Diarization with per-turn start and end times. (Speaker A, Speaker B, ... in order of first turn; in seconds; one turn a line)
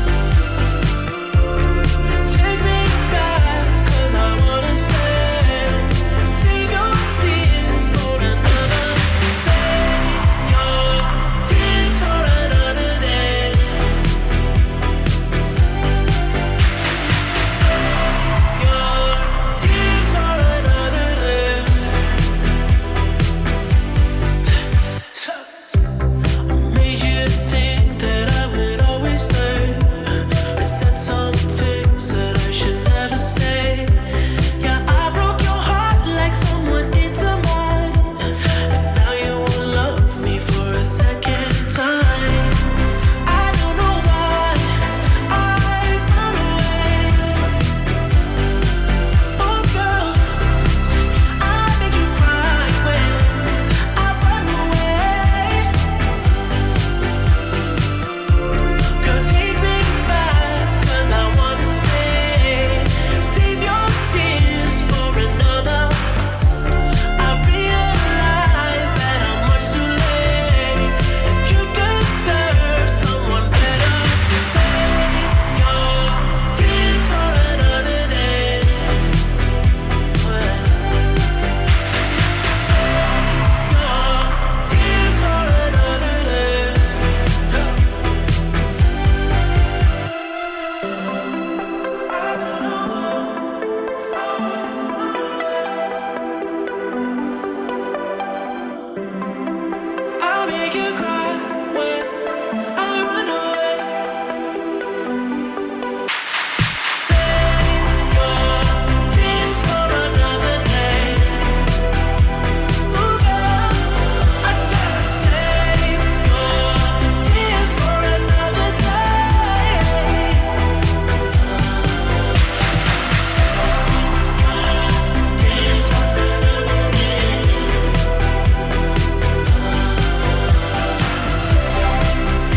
Speaker A: 2.2-13.6
Speaker A: 18.6-21.8
Speaker A: 25.1-25.4
Speaker A: 26.5-29.9
Speaker A: 30.6-33.9
Speaker A: 34.6-38.1
Speaker A: 38.8-42.5
Speaker A: 43.3-44.6
Speaker A: 45.3-47.4
Speaker A: 49.4-50.2
Speaker A: 51.4-53.4
Speaker A: 54.0-55.6
Speaker A: 59.0-66.0
Speaker A: 67.2-78.7
Speaker A: 80.2-80.8
Speaker A: 83.7-86.7
Speaker A: 100.2-102.0
Speaker A: 102.8-103.8
Speaker A: 107.0-111.4
Speaker A: 112.9-113.9
Speaker A: 114.4-120.4